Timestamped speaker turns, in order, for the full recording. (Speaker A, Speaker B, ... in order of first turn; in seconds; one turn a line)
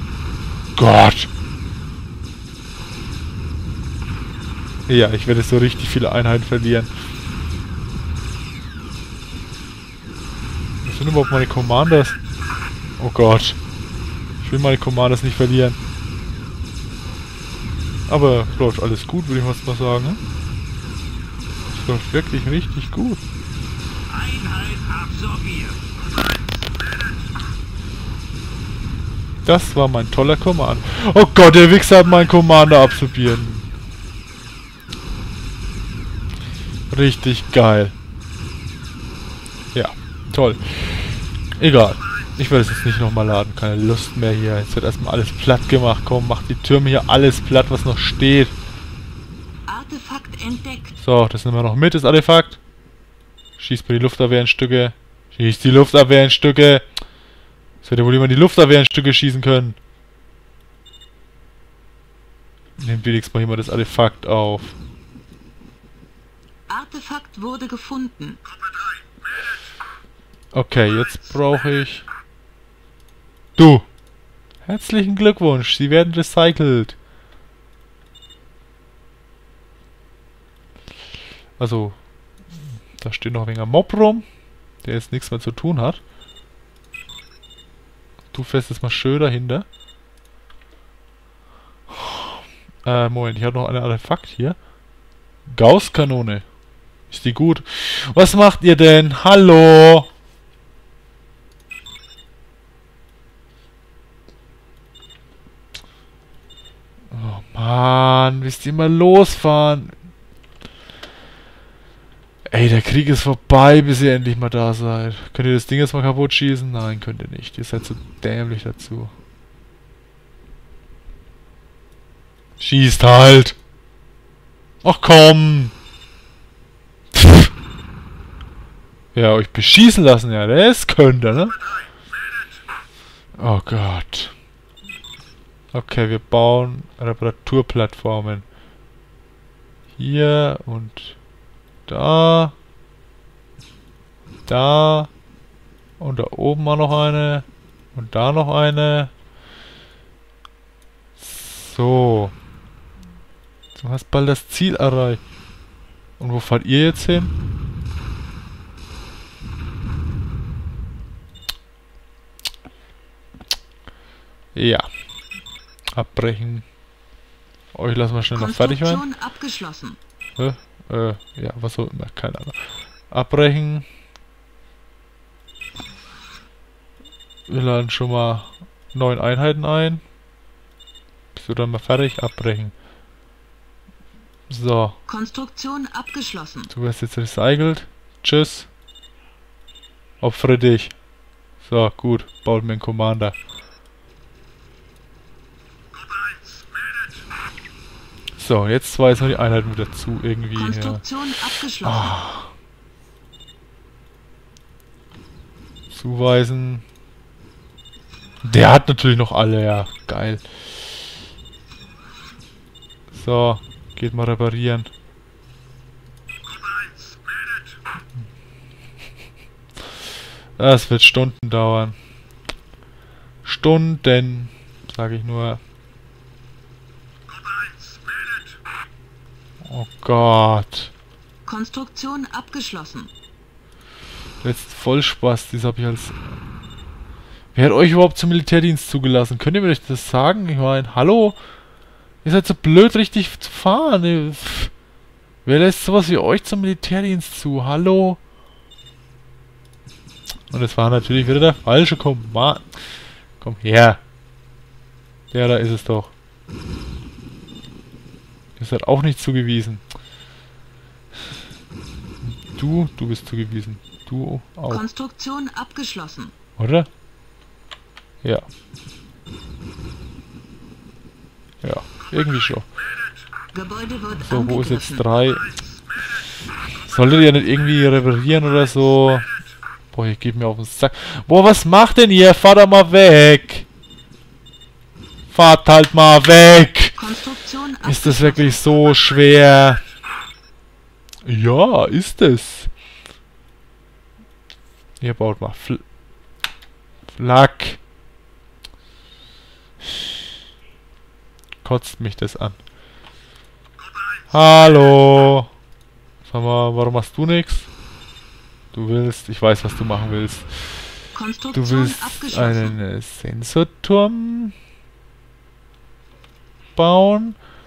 Speaker A: 0.8-1.3
Speaker A: 4.9-6.9
Speaker A: 10.8-12.2
Speaker A: 13.0-13.6
Speaker A: 14.4-15.8
Speaker A: 18.1-20.2
Speaker A: 21.7-23.2
Speaker B: 24.5-25.7
Speaker A: 29.4-33.7
Speaker A: 36.9-37.9
Speaker A: 39.7-48.5
Speaker B: 49.7-50.9
Speaker A: 51.0-52.6
Speaker A: 53.6-56.8
Speaker A: 57.8-59.8
Speaker A: 62.8-64.8
Speaker B: 66.7-68.4
Speaker A: 70.5-72.0
Speaker A: 73.6-73.9
Speaker A: 74.6-77.0
Speaker A: 81.6-82.0
Speaker A: 83.0-84.2
Speaker A: 84.8-86.0
Speaker A: 88.3-89.7
Speaker A: 91.9-94.6
Speaker A: 95.5-96.4
Speaker A: 97.1-100.1
Speaker A: 107.1-109.9
Speaker A: 112.5-119.1
Speaker A: 122.6-123.5
Speaker A: 124.8-125.7
Speaker A: 127.1-127.5
Speaker A: 129.1-131.6
Speaker A: 133.4-134.3
Speaker A: 135.7-138.4
Speaker A: 139.9-141.2
Speaker A: 141.9-142.5
Speaker A: 144.5-145.1
Speaker A: 146.0-149.1
Speaker A: 151.2-152.3
Speaker A: 153.7-155.2
Speaker A: 156.2-157.3
Speaker A: 164.5-164.9
Speaker A: 166.0-166.6
Speaker A: 167.7-169.1
Speaker B: 168.3-170.0
Speaker A: 170.4-172.6
Speaker A: 173.1-173.8
Speaker A: 177.5-180.0
Speaker A: 181.3-182.7
Speaker A: 184.5-185.0
Speaker B: 185.1-186.7
Speaker A: 186.7-188.7
Speaker A: 190.2-190.9
Speaker A: 191.6-193.3
Speaker A: 198.4-201.0
Speaker B: 200.6-202.1
Speaker A: 201.8-202.5
Speaker A: 205.9-206.8
Speaker A: 208.4-210.4
Speaker A: 213.1-214.9
Speaker A: 220.6-221.9
Speaker A: 223.4-225.6
Speaker A: 229.6-230.9
Speaker B: 231.4-233.1
Speaker A: 234.4-236.2
Speaker A: 237.5-241.4
Speaker A: 242.2-244.7
Speaker A: 245.4-248.2
Speaker A: 250.5-252.7
Speaker A: 253.4-254.0
Speaker A: 255.3-256.1
Speaker A: 258.6-259.8
Speaker A: 262.2-264.9
Speaker B: 264.7-266.3
Speaker A: 266.6-266.9
Speaker A: 271.6-272.7
Speaker B: 273.5-275.0
Speaker A: 274.2-275.5
Speaker A: 276.8-279.3
Speaker A: 279.9-283.7
Speaker A: 285.3-287.0
Speaker B: 287.0-288.6
Speaker A: 287.8-289.8
Speaker A: 291.2-292.7
Speaker A: 295.0-295.8
Speaker A: 297.1-297.8
Speaker A: 301.6-302.6
Speaker A: 304.3-305.5
Speaker A: 306.2-307.7
Speaker A: 308.7-310.8
Speaker B: 311.1-312.8
Speaker A: 311.5-314.5
Speaker A: 316.8-317.4